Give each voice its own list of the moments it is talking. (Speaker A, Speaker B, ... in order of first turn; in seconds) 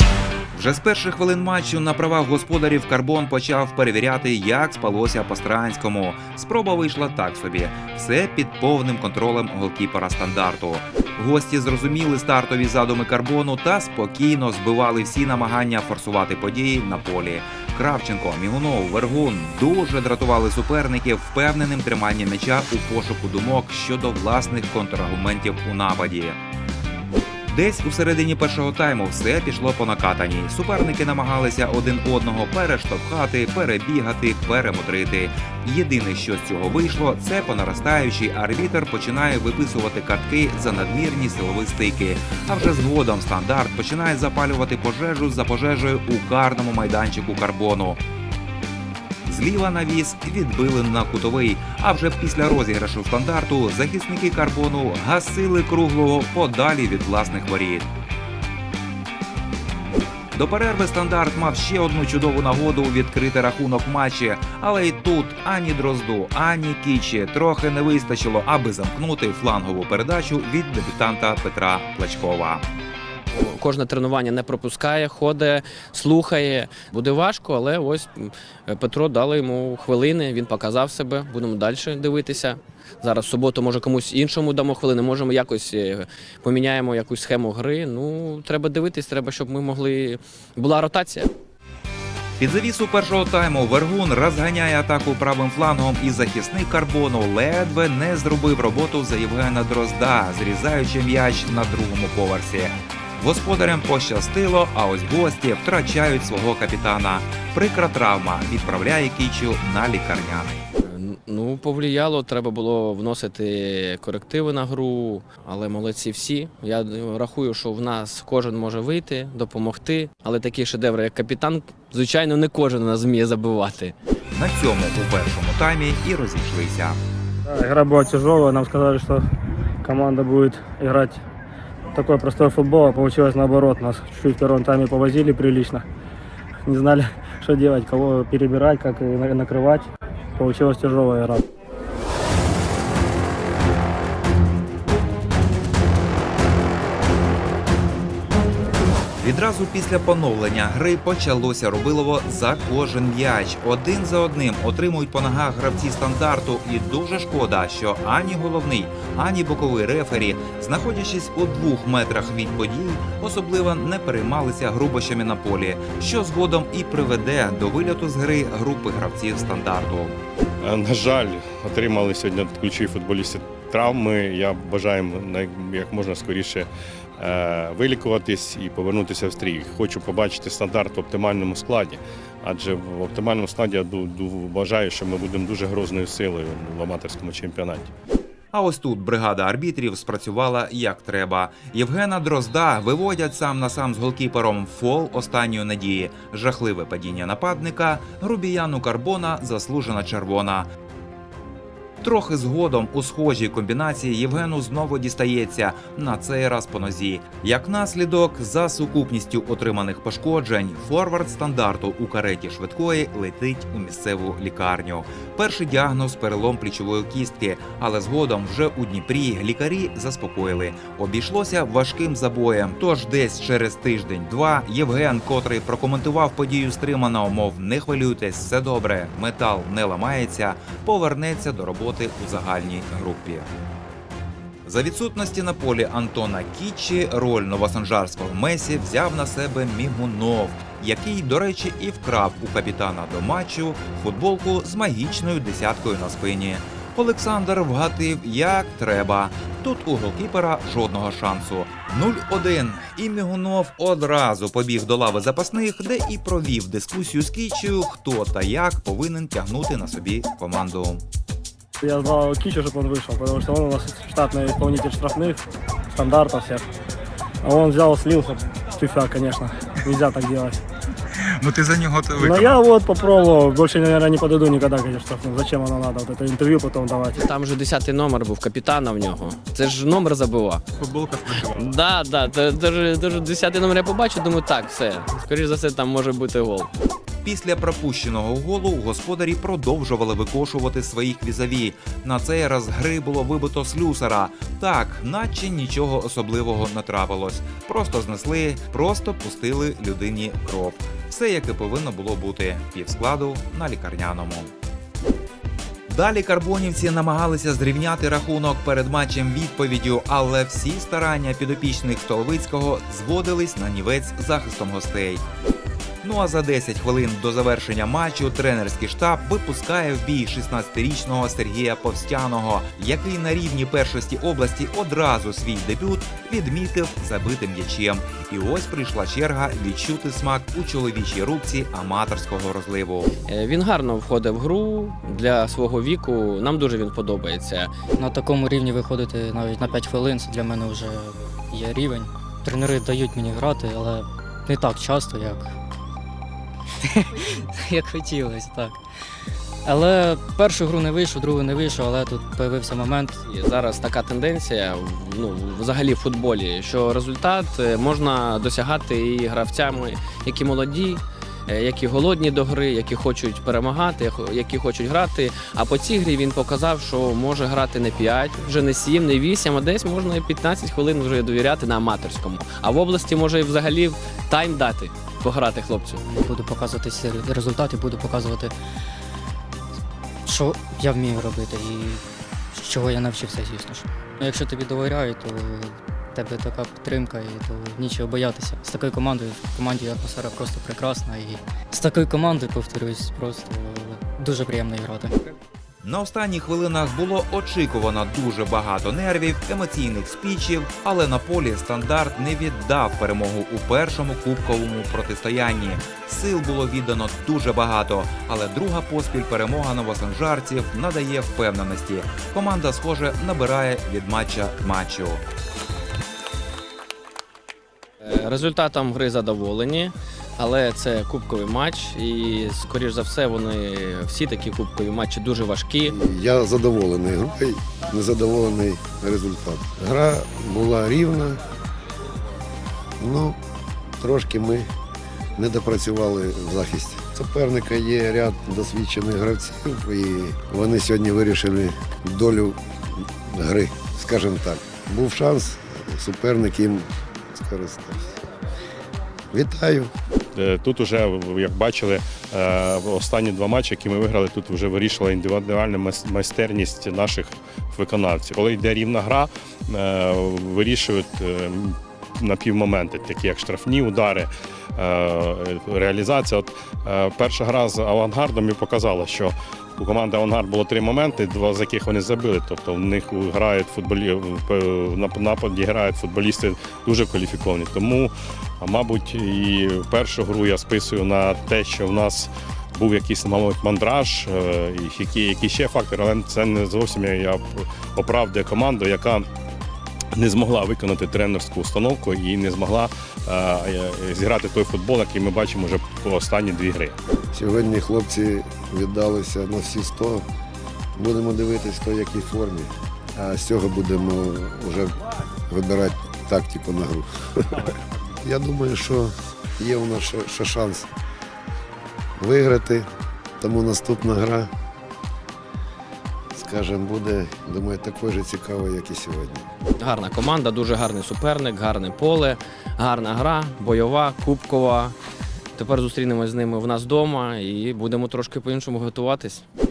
Speaker A: 0.5-26.4, 27.5-48.0, 49.3-57.9, 60.3-72.7, 92.4-110.6, 124.3-127.0, 149.2-170.2, 188.5-200.7, 202.0-233.5, 234.7-261.0, 271.1-272.6, 280.8-281.5, 287.2-304.5, 305.9-315.2, 316.0-333.1, 395.8-415.2
Speaker B: 73.3-91.3, 110.8-124.0, 277.2-280.7, 281.6-286.7, 333.3-337.7, 353.2-376.0, 418.0-426.0, 519.8-525.0, 525.5-529.5
Speaker C: 127.5-129.3, 129.8-131.2, 131.9-135.8, 136.7-141.4, 261.8-266.7, 267.4-270.6, 272.2-277.2
Speaker D: 170.6-187.9, 450.4-489.3, 490.1-496.9
Speaker E: 338.0-345.5, 346.8-348.8, 349.6-353.2, 376.0-378.5, 380.2-395.2
Speaker F: 425.9-431.4, 433.0-433.4, 434.0-434.7, 435.4-448.2, 449.3-449.9, 497.3-500.2, 501.0-504.9, 505.5-510.9, 512.2-512.9, 513.4-514.5, 516.3-519.5